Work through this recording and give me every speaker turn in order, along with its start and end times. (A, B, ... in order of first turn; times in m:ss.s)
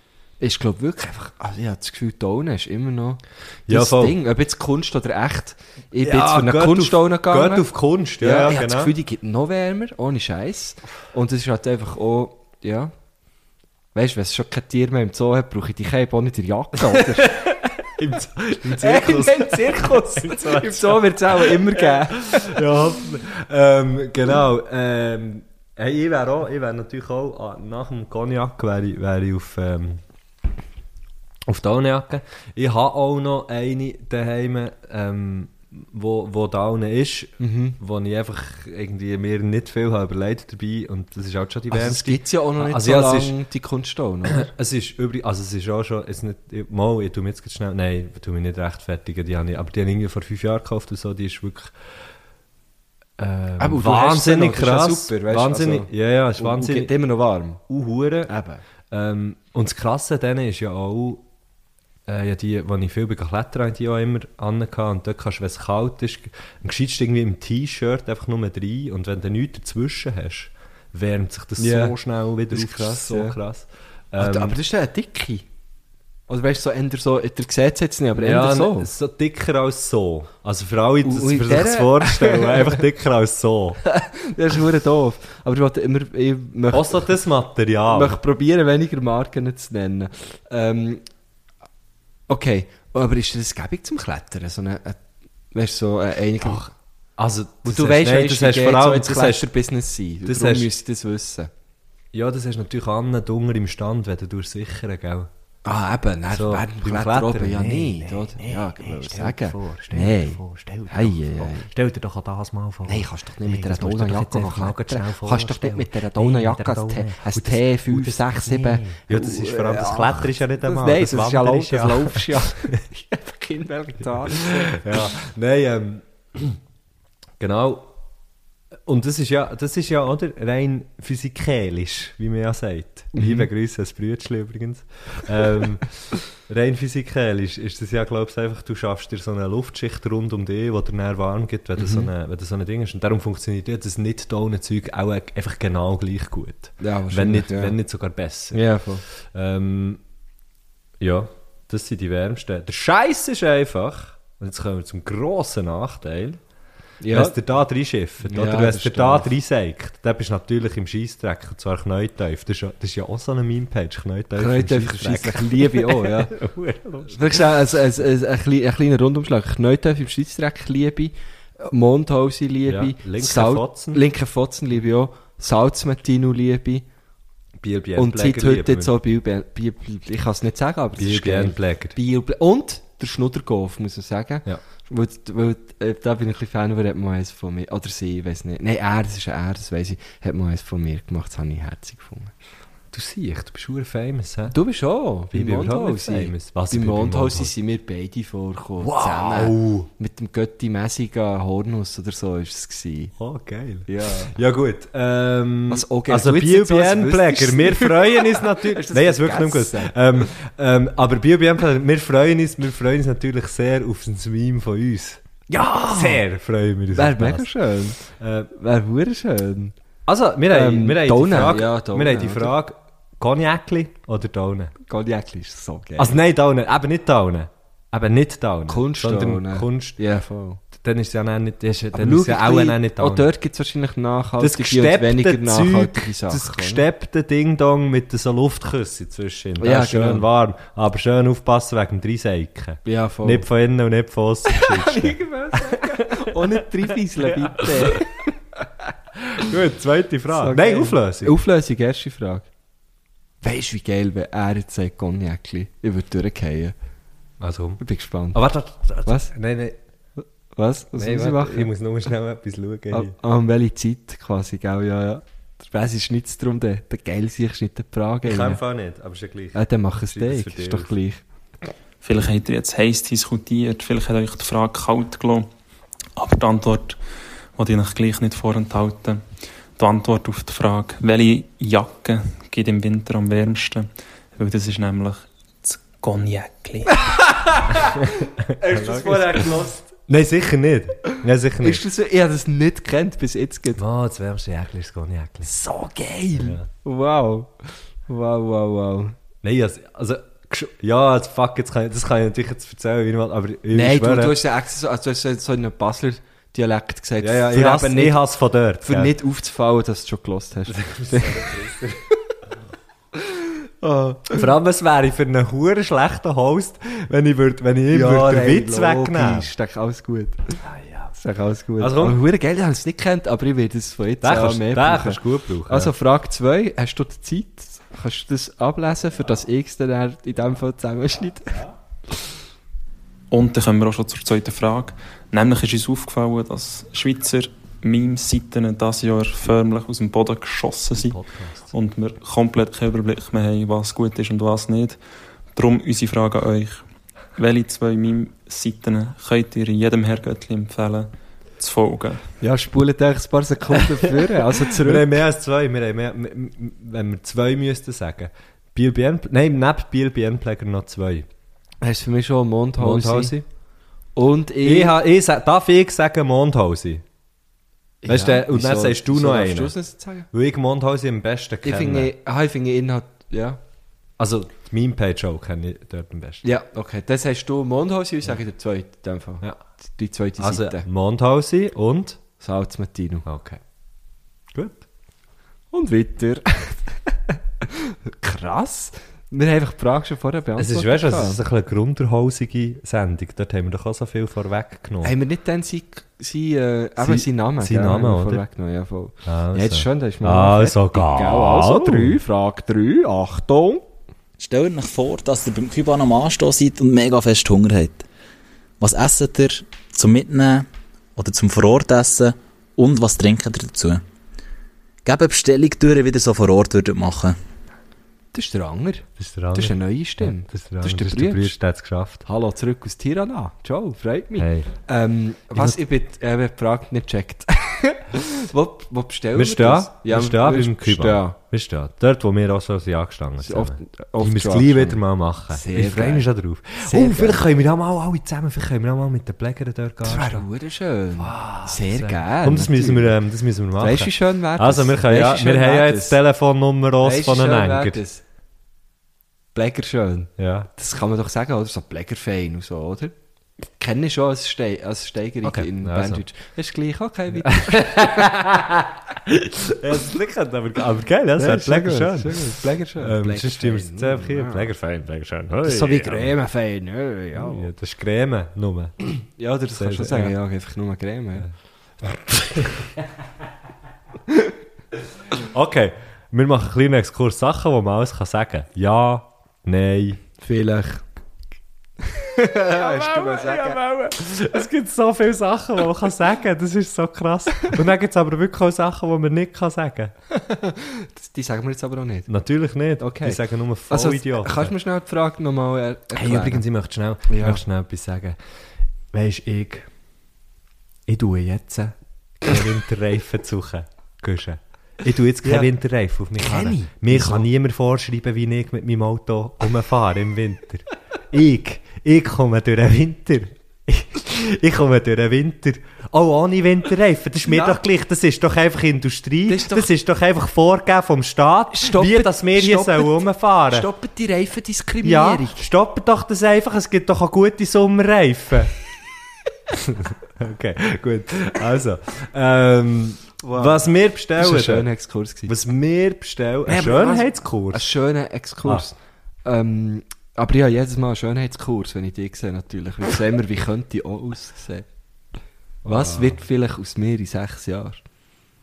0:00.4-0:07.7 A
0:03.7-0:04.2 B
0:06.0-0:08.9 B
0:08.2-0:12.9 A
0:13.9-0:17.5 A
0:16.9-0:30.0 B
0:18.6-0:22.8 A
0:31.5-0:43.3 B
0:37.4-0:37.8 A
0:41.7-0:44.5 A
0:44.2-0:51.7 B
0:53.2-0:56.9 B
0:53.6-0:57.6 A
0:57.7-0:58.3 B
0:58.3-0:58.6 A
0:58.9-1:01.2 B
1:02.1-1:14.6 B
1:11.6-1:12.0 A
1:12.5-1:13.4 A
1:14.2-1:15.4 A
1:16.3-1:18.9 A
1:18.2-1:23.8 B
1:21.0-1:22.8 A
1:23.8-1:27.1 A
1:26.7-1:28.2 B
1:27.9-1:31.0 A
1:32.3-1:35.0 A
1:35.5-1:36.7 A
1:36.4-1:39.5 B
1:37.6-1:41.5 A
1:40.2-1:40.7 B
1:42.1-1:45.3 B
1:45.6-1:51.7 A
1:46.3-2:02.7 B
1:52.8-2:05.1 A
2:04.3-2:06.6 B
2:07.4-2:07.9 B
2:08.8-2:30.0 B
2:13.1-2:13.5 A
2:21.8-2:22.1 A
2:26.8-2:27.8 A
2:28.5-2:29.0 A
2:31.0-2:36.4 B
2:37.0-2:37.4 A
2:37.1-2:47.5 B
2:38.2-2:39.3 A
2:44.4-2:46.3 A
2:47.0-2:56.8 A
2:52.6-2:54.0 B
2:57.6-2:58.9 B
2:58.0-3:12.3 A
3:01.0-3:02.0 B
3:12.9-3:14.6 B
3:14.5-3:23.1 A
3:15.3-3:17.5 B
3:18.8-3:19.9 B
3:23.2-3:35.2 B
3:23.9-3:24.4 A
3:25.7-3:30.2 A
3:35.5-3:36.2 A
3:35.9-3:37.5 B
3:36.9-3:39.7 A
3:38.0-3:38.5 B
3:40.0-3:44.7 B
3:40.5-3:42.5 A
3:44.8-3:46.2 A
3:46.0-3:50.0 B
3:48.7-3:50.6 A
3:50.7-3:53.3 B
3:51.9-3:56.8 A
3:54.4-4:06.6 B
3:59.6-4:00.3 A
4:02.8-4:03.4 A
4:04.5-4:08.3 A
4:07.2-4:08.0 B
4:09.2-4:11.4 B
4:10.3-4:12.5 A
4:13.4-4:16.7 A
4:17.4-4:17.8 B
4:17.8-4:18.4 A
4:18.3-4:19.8 B
4:19.0-4:19.3 A
4:20.5-4:21.7 A
4:20.9-4:23.1 B
4:22.9-4:28.6 A
4:28.2-4:30.9 B
4:29.5-4:31.2 A
4:32.0-4:35.5 C
4:36.2-4:37.0 C
4:37.6-4:39.2 C
4:39.8-4:47.1 C
4:46.9-4:49.8 A
4:48.5-4:51.8 B
4:51.6-4:53.8 A
4:53.8-4:55.5 B
4:55.4-4:59.2 A
4:56.4-4:56.7 B
4:59.4-5:04.4 B
5:03.7-5:08.2 A
5:07.2-5:09.1 B
5:08.8-5:11.6 A
5:10.7-5:12.0 B
5:13.2-5:14.4 A
5:14.3-5:19.5 B
5:17.9-5:20.6 A
5:20.6-5:21.1 B
5:21.2-5:31.7 A
5:21.8-5:22.2 B
5:24.2-5:25.9 B
5:33.3-5:41.2 C
5:40.9-5:41.7 B
5:41.7-5:45.0 C
5:45.5-5:46.8 C
5:47.4-5:52.2 C
5:52.4-5:55.2 A
5:54.6-6:01.3 B
6:01.8-6:03.3 A
6:02.8-6:03.4 B
6:04.1-6:05.0 A
6:04.6-6:07.0 B
6:08.0-6:10.3 A
6:08.0-6:09.8 B
6:10.3-6:12.1 B
6:11.6-6:13.6 A
6:14.2-6:16.4 B
6:16.4-6:20.9 A
6:20.4-6:22.2 B
6:22.4-6:23.2 A
6:23.2-6:23.6 B
6:24.5-6:24.8 B
6:25.7-6:31.4 A
6:30.6-6:35.1 B
6:35.0-6:43.8 A
6:37.0-6:38.4 B
6:39.2-6:42.2 B
6:44.4-6:48.0 D
6:48.8-6:54.0 D
6:55.0-6:57.4 D
6:58.3-7:01.5 A
6:59.2-7:02.2 B
7:02.2-7:11.4 A
7:04.4-7:04.7 B
7:09.3-7:20.4 B
7:13.4-7:16.3 A
7:16.8-7:17.4 A
7:20.0-7:23.1 A
7:21.2-7:28.0 B
7:23.8-7:26.2 A
7:27.0-7:28.2 A
7:29.5-7:33.1 A
7:30.4-7:30.7 B
7:33.8-7:38.4 A
7:35.4-7:36.2 B
7:37.3-7:46.4 B
7:41.4-7:44.7 A
7:45.6-7:47.7 A
7:47.3-7:48.9 B
7:49.1-7:51.5 A
7:49.8-7:50.4 B
7:52.0-7:53.0 B
7:55.3-8:00.2 B
8:00.4-8:01.0 A
8:02.1-8:03.8 A
8:02.7-8:10.1 B
8:10.3-8:12.3 A
8:12.3-8:14.7 B
8:13.0-8:16.6 A
8:16.1-8:18.4 B
8:17.3-8:17.6 A
8:19.1-8:19.9 B
8:21.1-8:43.9 B
8:25.4-8:25.7 A
8:26.4-8:27.5 A
8:37.5-8:37.8 A
8:39.5-8:39.9 A
8:41.7-8:45.7 A
8:45.0-8:48.7 B
8:49.7-8:54.9 B
8:53.4-8:55.5 A
8:55.4-8:57.9 B
8:56.6-9:04.8 A
9:05.8-9:06.4 B
9:05.8-9:08.0 A